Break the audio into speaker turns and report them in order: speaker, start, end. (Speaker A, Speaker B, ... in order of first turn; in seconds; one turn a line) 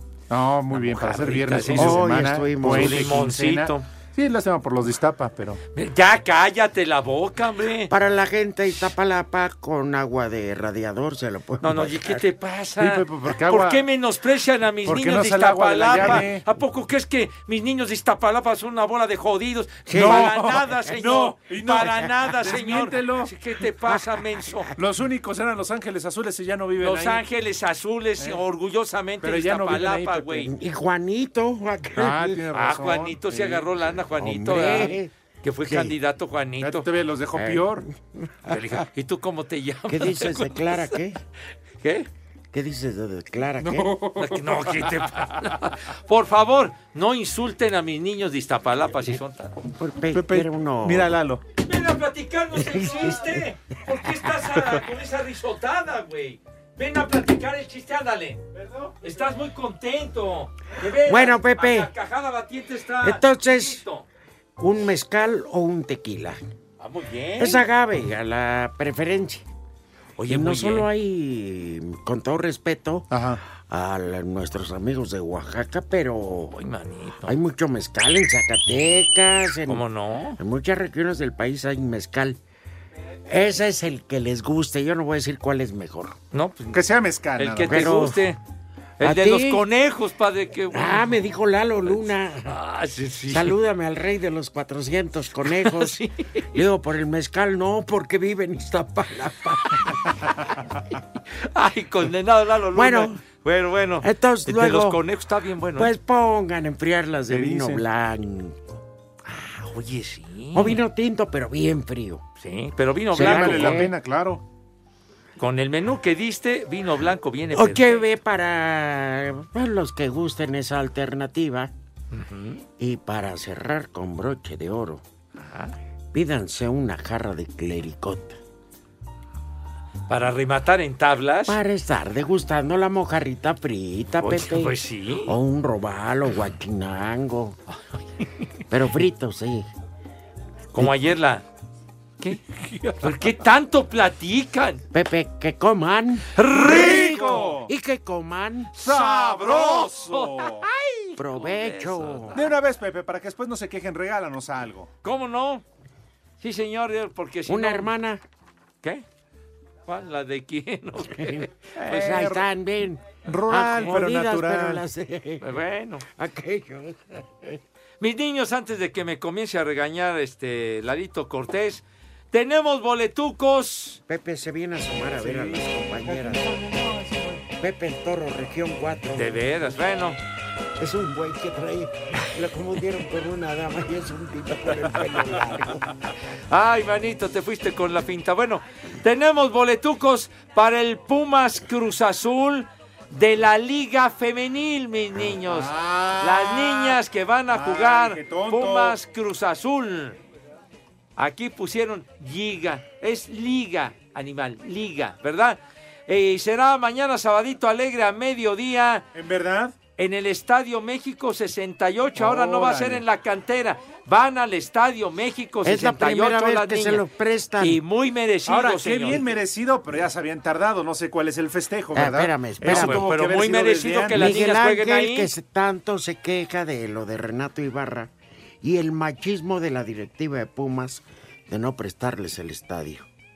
Speaker A: 0.3-5.6
Speaker B: 0.7-3.9
Speaker C: 1.8-3.0
Speaker B: 5.7-7.9
Speaker C: 7.9-12.2
Speaker B: 11.6-24.8
Speaker A: 12.8-13.8
Speaker A: 14.8-16.4
Speaker C: 19.9-20.4
Speaker A: 19.9-23.3
Speaker A: 24.8-27.2
Speaker B: 26.8-30.5
Speaker A: 29.2-30.5
Speaker C: 30.5-32.4
Speaker A: 31.9-33.7
Speaker B: 32.5-36.9
Speaker C: 34.2-35.1
Speaker C: 35.6-36.0
Speaker A: 36.6-37.9
Speaker C: 37.3-38.3
Speaker B: 38.4-40.9
Speaker C: 39.9-41.2
Speaker B: 41.8-42.1
Speaker C: 42.5-44.0
Speaker A: 43.6-45.0
Speaker B: 44.1-49.5
Speaker C: 49.8-51.1
Speaker A: 50.1-51.4
Speaker B: 51.6-58.4
Speaker C: 52.5-53.4
Speaker B: 59.0-64.0
Speaker C: 61.0-61.9
Speaker C: 63.0-63.8
Speaker C: 64.6-66.4
Speaker B: 66.8-67.6
Speaker C: 67.4-69.5
Speaker B: 70.2-70.9
Speaker C: 70.3-76.5
Speaker A: 73.1-73.4
Speaker B: 76.5-77.3
Speaker C: 77.2-79.8
Speaker B: 79.7-80.4
Speaker C: 80.4-82.4
Speaker C: 83.3-86.2
Speaker B: 86.3-86.8
Speaker A: 86.7-87.9
Speaker B: 87.4-88.4
Speaker C: 87.7-88.2
Speaker B: 89.0-91.2
Speaker C: 89.0-89.6
Speaker C: 90.7-92.5
Speaker B: 92.5-93.6
Speaker C: 93.3-96.0
Speaker B: 95.4-96.6
Speaker C: 96.5-100.0
Speaker B: 101.4-105.9
Speaker C: 102.7-103.2
Speaker C: 104.0-105.0
Speaker C: 105.8-108.6
Speaker A: 107.3-107.8
Speaker B: 109.2-110.8
Speaker C: 110.5-112.2
Speaker B: 112.4-113.8
Speaker C: 113.1-113.9
Speaker A: 113.1-114.4
Speaker B: 115.4-118.0
Speaker C: 117.5-121.7
Speaker B: 122.1-122.6
Speaker C: 122.8-125.0
Speaker B: 125.4-125.8
Speaker C: 126.1-128.4
Speaker B: 130.1-131.6
Speaker C: 131.4-134.7
Speaker B: 134.2-135.3
Speaker C: 135.2-137.6
Speaker B: 137.7-138.4
Speaker C: 138.7-139.7
Speaker B: 140.7-141.4
Speaker A: 142.5-143.0
Speaker B: 143.0-144.8
Speaker C: 144.9-148.7
Speaker B: 146.3-147.5
Speaker A: 146.7-147.7
Speaker B: 148.8-152.5
Speaker A: 148.8-150.6
Speaker C: 151.2-152.3
Speaker A: 152.3-154.9
Speaker B: 155.0-155.6
Speaker B: 156.4-157.9
Speaker C: 157.5-158.2
Speaker B: 159.8-162.3
Speaker C: 161.1-167.6
Speaker A: 161.8-162.4
Speaker A: 163.2-164.8
Speaker B: 165.4-166.0
Speaker B: 168.0-174.0
Speaker C: 174.1-176.6
Speaker A: 175.2-175.6
Speaker A: 176.2-177.2
Speaker C: 177.5-179.4
Speaker B: 179.2-180.2
Speaker C: 180.8-185.8
Speaker B: 186.5-200.2
Speaker A: 195.4-197.0
Speaker A: 197.5-198.9
Speaker B: 201.2-209.1
Speaker A: 209.1-209.7
Speaker B: 210.0-217.0
Speaker A: 212.2-213.0
Speaker C: 215.6-217.8
Speaker B: 217.6-219.2
Speaker A: 218.5-224.3
Speaker C: 221.9-223.1
Speaker B: 222.6-225.3
Speaker C: 224.1-228.1
Speaker C: 228.6-233.1